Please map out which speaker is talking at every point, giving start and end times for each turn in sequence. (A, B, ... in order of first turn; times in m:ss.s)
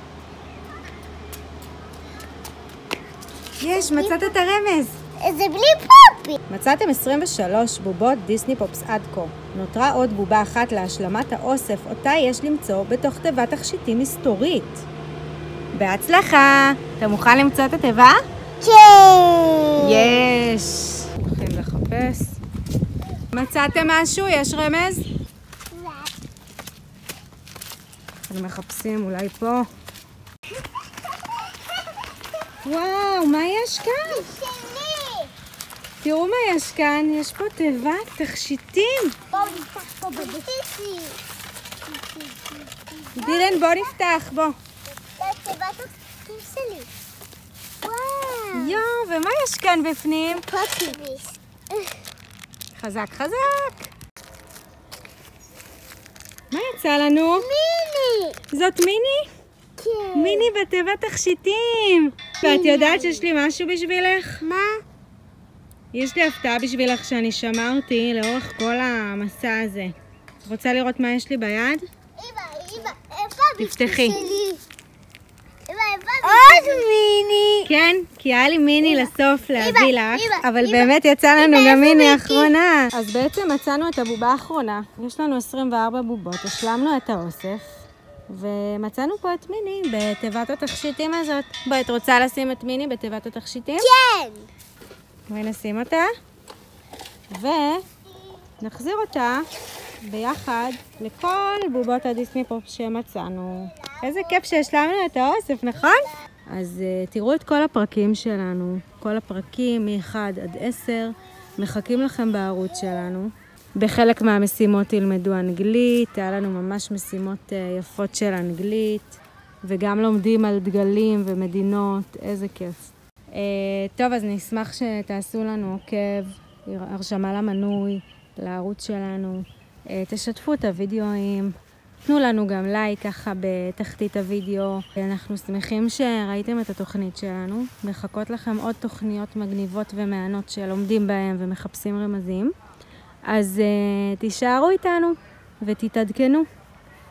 0:03.6-0:05.0 A
0:03.7-0:04.3 B
0:05.2-0:06.4 B
0:06.5-0:14.9 A
0:15.7-0:18.2 A
0:18.6-0:20.2 B
0:19.8-0:22.4 A
0:23.3-0:25.1 A
0:25.7-0:26.1 B
0:28.3-0:29.6 A
0:32.6-0:34.2 A
0:34.0-0:35.3 B
0:36.0-0:39.2 A
0:39.3-0:41.2 B
0:41.9-0:43.9 B
0:43.2-0:44.5 A
0:45.2-0:46.9 B
0:47.8-0:48.8 B
0:48.5-0:50.4 A
0:50.3-0:52.0 B
0:52.7-0:53.9 A
0:56.5-0:57.5 A
0:57.3-0:58.4 B
0:58.5-0:59.3 A
0:59.8-1:00.5 B
1:00.1-1:04.4 A
1:02.4-1:03.2 B
1:04.4-1:04.8 B
1:05.9-1:09.9 A
1:10.4-1:11.8 A
1:12.2-1:14.6 B
1:13.6-1:14.2 A
1:15.7-1:17.7 B
1:17.6-1:33.9 A
1:18.8-1:22.5 B
1:33.8-1:34.5 B
1:35.3-1:36.1 A
1:37.3-1:37.8 A
1:38.6-1:39.4 A
1:40.0-2:11.5 A
2:12.0-2:22.5 A
2:23.2-2:26.4 A